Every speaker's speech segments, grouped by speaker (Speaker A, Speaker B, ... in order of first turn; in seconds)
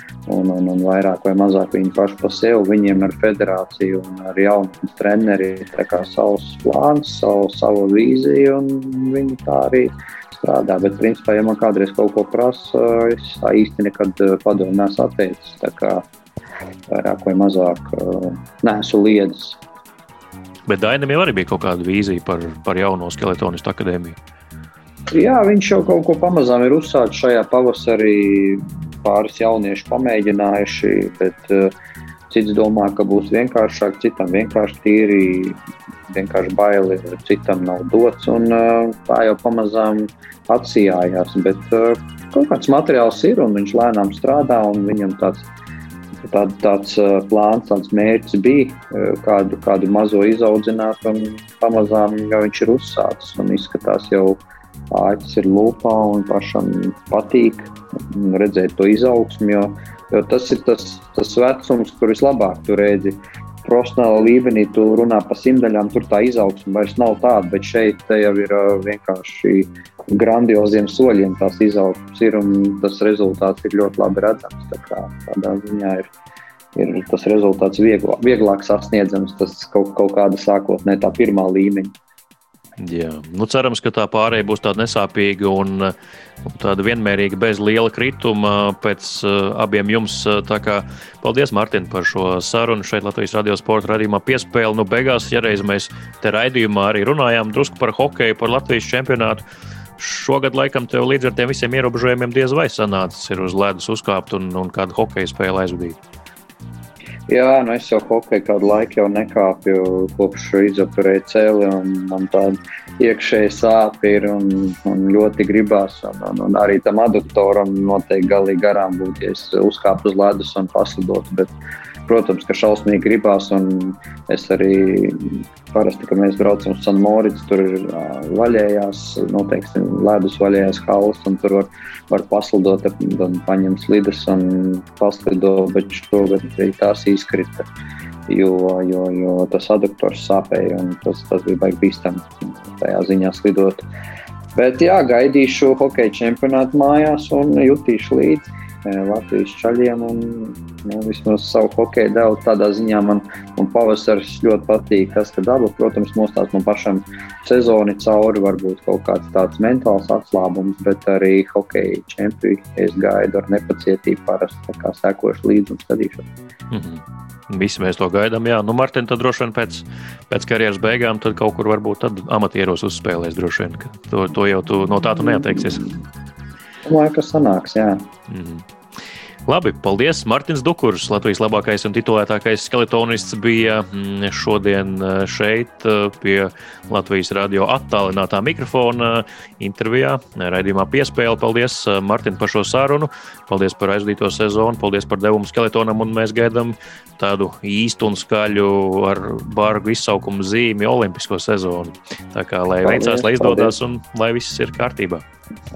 Speaker A: 0.3-16.1, 16.9-19.6, 25.1-31.7, 32.3-45.5, 46.2-76.1, 76.7-81.9, 107.3-121.5, 122.0-137.7, 138.3-143.8, 144.6-166.3, 176.8-178.0, 202.8-203.7
Speaker B: 20.7-24.2, 82.8-99.4, 100.0-106.0, 166.7-175.9, 178.3-178.7, 179.4-205.2